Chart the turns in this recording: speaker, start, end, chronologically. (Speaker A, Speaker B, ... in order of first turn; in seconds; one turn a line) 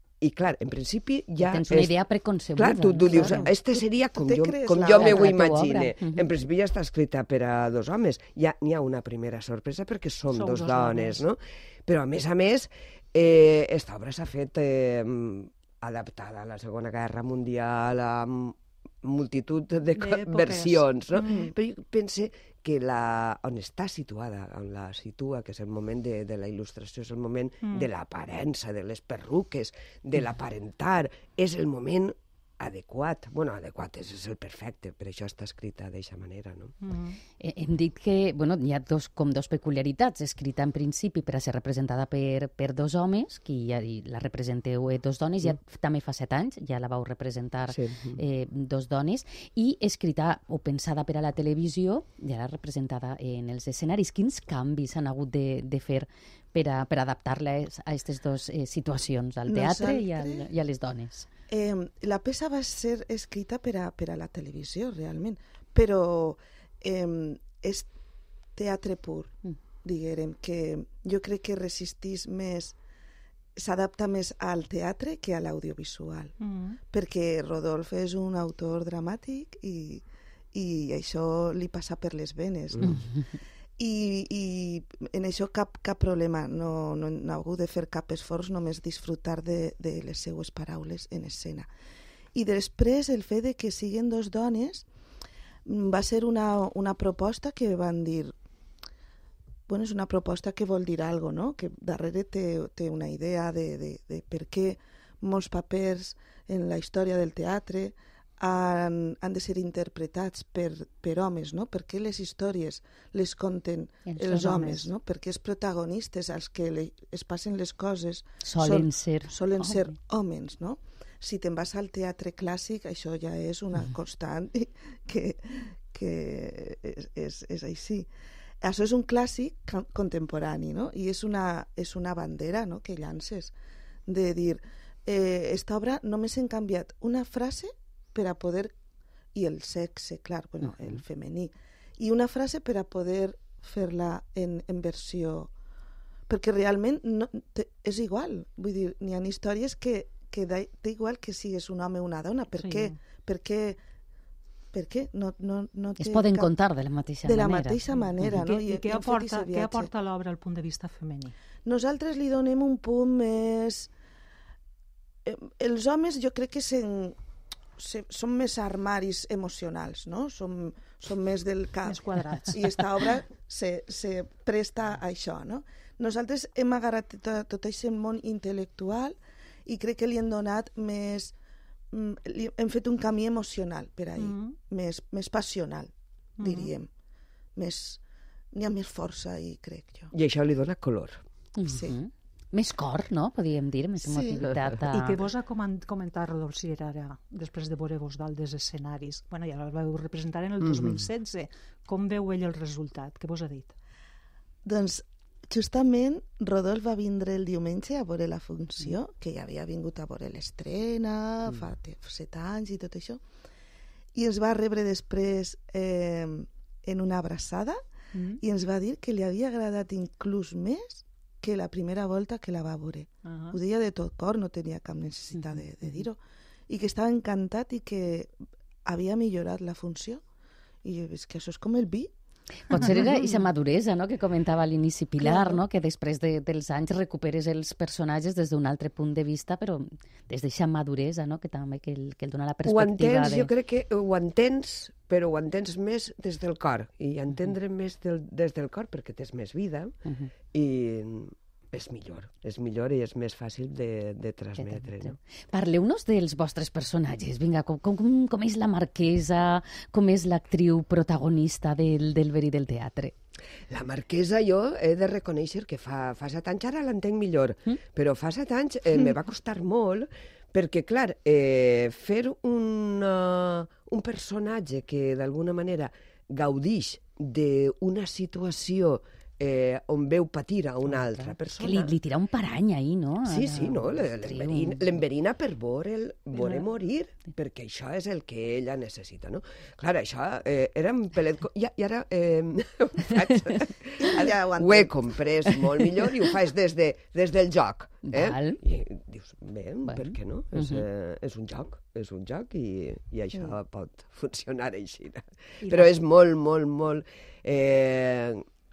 Speaker A: 0.2-1.9
Speaker B: 1.4-3.5
Speaker A: 2.5-36.7
Speaker C: 3.1-5.6
Speaker B: 5.0-6.2
Speaker D: 10.3-11.2
Speaker D: 19.9-21.5
Speaker D: 27.6-27.9
Speaker D: 36.8-37.2
Speaker B: 37.4-61.3
Speaker A: 47.7-48.2
Speaker C: 59.4-60.5
Speaker C: 61.5-67.9
Speaker C: 68.5-69.3
Speaker C: 69.8-72.8
Speaker C: 73.5-76.3
Speaker D: 76.4-76.8
Speaker C: 76.9-83.0
Speaker C: 83.8-91.7
Speaker C: 92.3-94.8
Speaker C: 95.7-98.3
Speaker C: 99.7-128.1
Speaker B: 118.5-119.3
Speaker C: 128.6-133.5
Speaker C: 134.1-138.7
Speaker C: 139.3-145.5
Speaker C: 146.3-153.8
Speaker D: 152.5-153.0
Speaker C: 154.7-156.5
Speaker B: 156.0-157.8
Speaker C: 157.2-159.9
Speaker D: 157.9-161.3
Speaker C: 161.6-163.9
Speaker C: 165.2-167.2
Speaker C: 167.8-172.0
Speaker D: 171.8-172.7
Speaker C: 172.5-181.3
Speaker C: 181.9-185.9
Speaker D: 184.2-184.6
Speaker D: 186.4-186.7
Speaker C: 186.4-186.9
Speaker C: 187.6-188.0
Speaker C: 188.5-190.1
Speaker A: 190.1-191.2
Speaker B: 191.6-195.2
Speaker C: 194.0-194.4
Speaker D: 194.8-203.7
Speaker C: 204.6-213.2
Speaker C: 214.1-217.8
Speaker D: 218.1-218.4
Speaker C: 218.4-228.3
Speaker D: 223.2-223.6
Speaker C: 228.8-230.2
Speaker C: 230.8-232.1
Speaker B: 232.7-243.5
Speaker D: 232.7-233.4
Speaker C: 235.2-235.6
Speaker A: 242.6-249.9
Speaker A: 250.5-255.2
Speaker B: 255.5-263.1
Speaker A: 263.7-281.9
Speaker B: 281.5-284.8
Speaker A: 283.2-308.4
Speaker C: 294.0-295.1
Speaker B: 298.1-298.6
Speaker B: 299.8-300.1
Speaker D: 305.6-306.0